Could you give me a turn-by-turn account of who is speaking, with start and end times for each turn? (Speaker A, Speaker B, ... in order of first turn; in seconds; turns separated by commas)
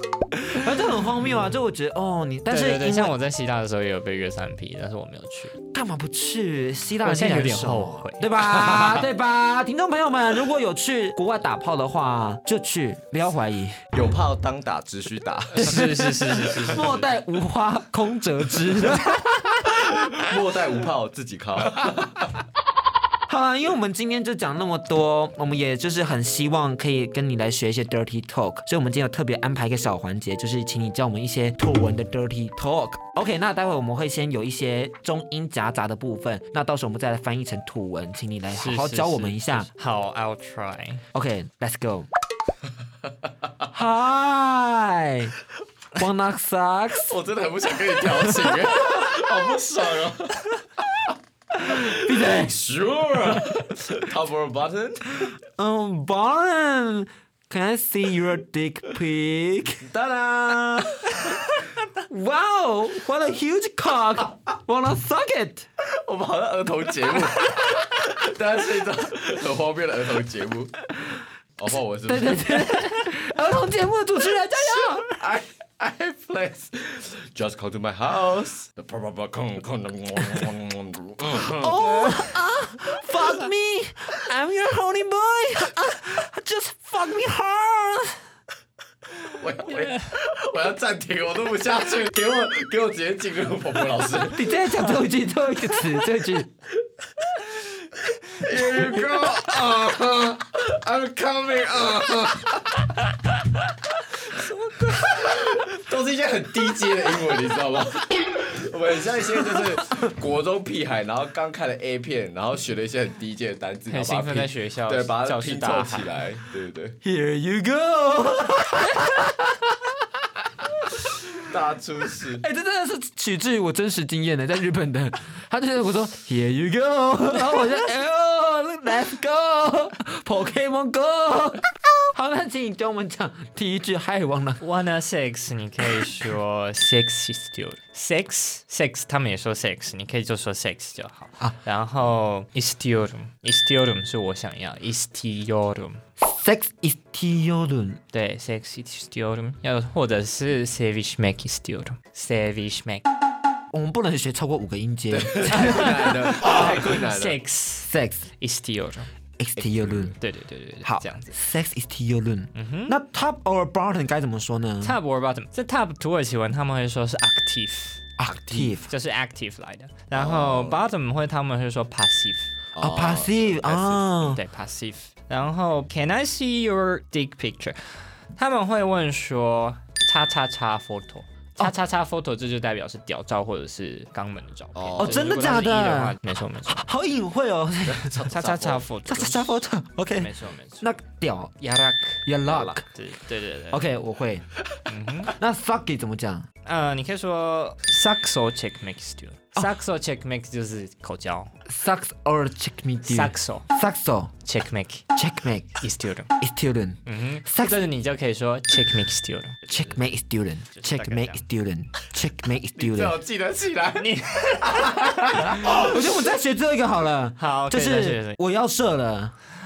Speaker A: 0.3-3.1, Speaker B: 2.5-5.5, Speaker A: 5.7-13.8, Speaker B: 7.0-8.3, Speaker C: 8.5-9.0, Speaker C: 13.9-15.7, Speaker B: 15.6-17.1, Speaker A: 15.6-19.6, Speaker C: 19.8-22.3, Speaker A: 23.3-39.7, Speaker B: 38.6-41.0, Speaker A: 41.1-42.1, Speaker A: 43.7-45.3, Speaker A: 45.9-47.1, Speaker C: 47.0-51.1, Speaker A: 48.1-48.6, Speaker A: 51.6-52.5, Speaker C: 51.6-55.3, Speaker A: 55.6-59.9, Speaker C: 59.8-60.9, Speaker A: 60.6-65.7, Speaker C: 65.8-70.8, Speaker C: 71.6-72.8, Speaker A: 72.1-75.2, Speaker C: 74.8-82.0, Speaker A: 81.6-88.2, Speaker C: 89.2-94.4, Speaker B: 89.7-90.1, Speaker A: 94.3-96.5, Speaker C: 98.3-102.9, Speaker A: 98.6-99.4, Speaker C: 104.3-117.0, Speaker B: 113.9-116.1, Speaker A: 117.0-120.0, Speaker A: 120.6-121.0, Speaker C: 121.4-122.4, Speaker A: 122.4-134.6, Speaker B: 134.6-146.0, Speaker A: 146.2-148.0, Speaker B: 148.1-153.0, Speaker A: 153.7-156.9, Speaker C: 155.1-157.4, Speaker B: 155.5-159.1, Speaker A: 157.8-158.3, Speaker A: 159.4-160.2, Speaker C: 159.8-160.1, Speaker B: 160.1-161.3, Speaker A: 160.8-165.0, Speaker B: 162.5-162.9, Speaker B: 164.8-172.5, Speaker A: 168.2-168.9, Speaker C: 170.1-170.8, Speaker C: 172.8-173.3, Speaker A: 172.8-174.4, Speaker B: 173.4-177.8, Speaker B: 178.3-186.8, Speaker C: 184.7-185.3, Speaker A: 185.0-188.2, Speaker C: 187.8-188.8, Speaker B: 188.3-189.6, Speaker A: 189.1-191.7, Speaker B: 190.2-190.9, Speaker B: 191.6-193.8, Speaker A: 192.2-192.8, Speaker A: 193.7-194.4, Speaker B: 194.9-195.3, Speaker A: 195.3-196.5, Speaker B: 196.6-201.5, Speaker A: 201.7-204.3, Speaker B: 203.0-203.7, Speaker B: 204.4-205.1, Speaker A: 205.1-205.8, Speaker B: 205.8-206.3, Speaker A: 206.4-207.8, Speaker B: 207.1-210.0, Speaker A: 209.7-213.2, Speaker B: 210.7-211.4, Speaker C: 212.8-215.7, Speaker B: 214.0-215.6, Speaker A: 215.6-219.3, Speaker B: 217.4-218.4